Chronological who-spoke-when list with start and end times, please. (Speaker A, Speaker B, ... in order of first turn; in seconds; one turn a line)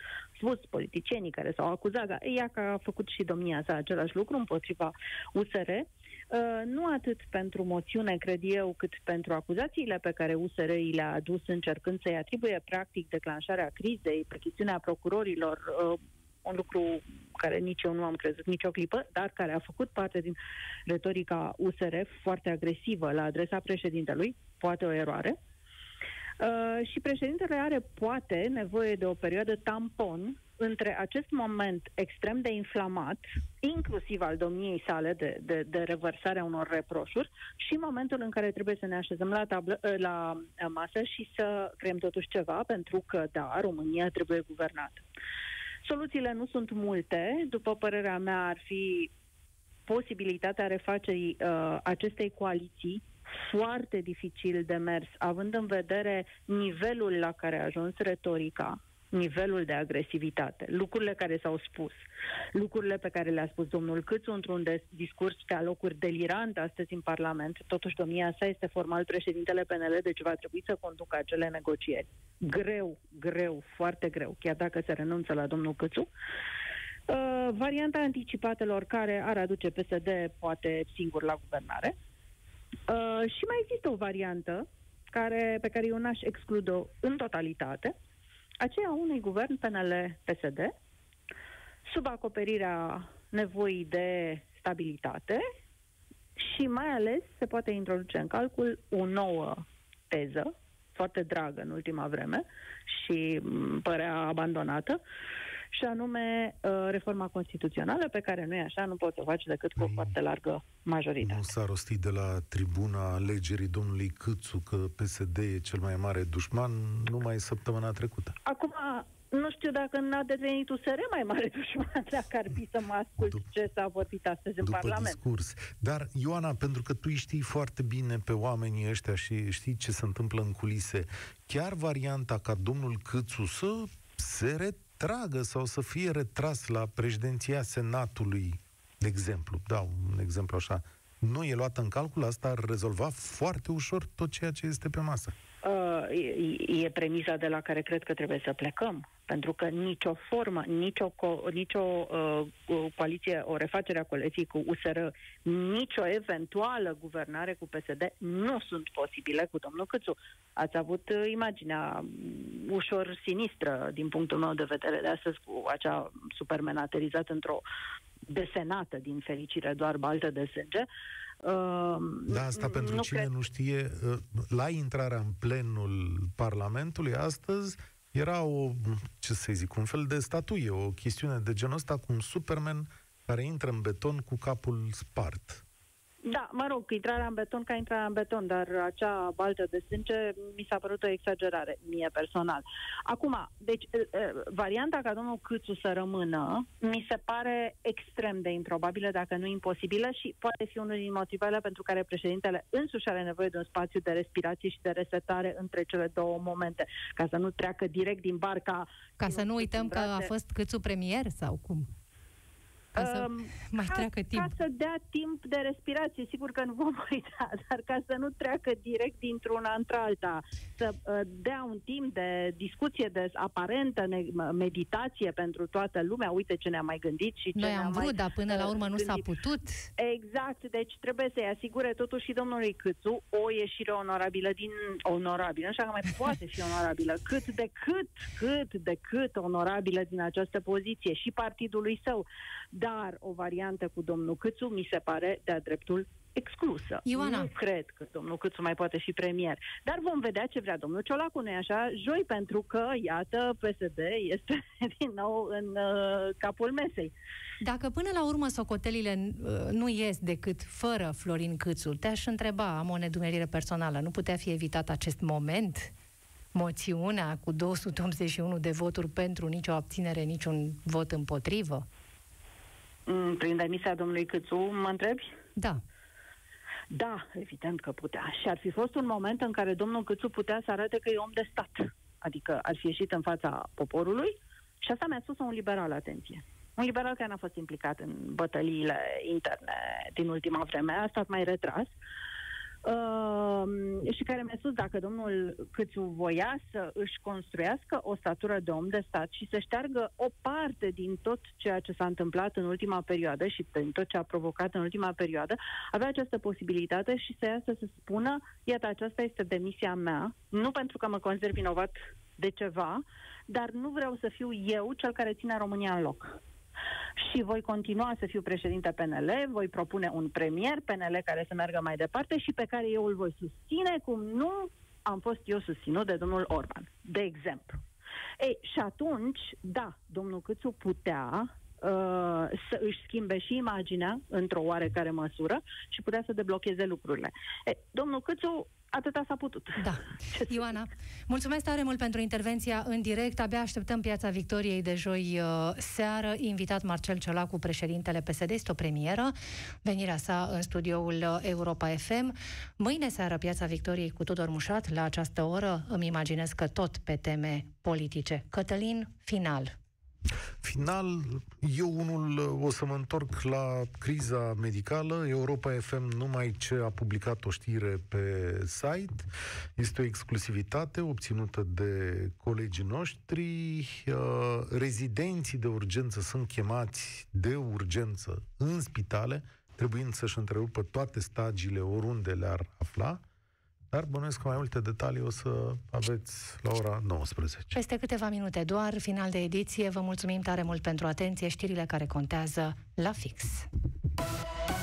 Speaker A: 0.3-25.4
Speaker A: 26.4-45.0
Speaker A: 45.8-49.1
Speaker A: 49.9-62.0
Speaker A: 62.5-76.1
Speaker A: 77.1-81.9
Speaker A: 82.9-87.9
Speaker A: 88.6-90.7
Speaker A: 91.8-95.4
Speaker A: 96.4-105.0
Speaker A: 105.7-111.5
Speaker B: 109.8-110.1
Speaker B: 111.2-118.3
Speaker A: 118.5-125.2
Speaker B: 124.6-145.3
Speaker A: 145.6-167.6
Speaker A: 168.3-170.9
Speaker A: 171.4-173.3
Speaker B: 172.3-185.6
Speaker A: 186.2-210.3
Speaker C: 209.2-211.9
Speaker C: 212.9-214.5
Speaker A: 212.9-229.3
Speaker C: 227.6-229.9
Speaker A: 230.0-257.1
Speaker C: 247.1-247.5
Speaker C: 257.6-265.9
Speaker C: 266.5-271.9
Speaker A: 273.1-275.3
Speaker C: 275.6-275.8
Speaker A: 276.9-291.9
Speaker A: 292.8-316.4
Speaker A: 317.2-327.8
Speaker A: 328.4-340.7
Speaker C: 339.8-359.7
Speaker B: 360.6-383.2
Speaker B: 383.9-387.7
Speaker C: 387.7-393.7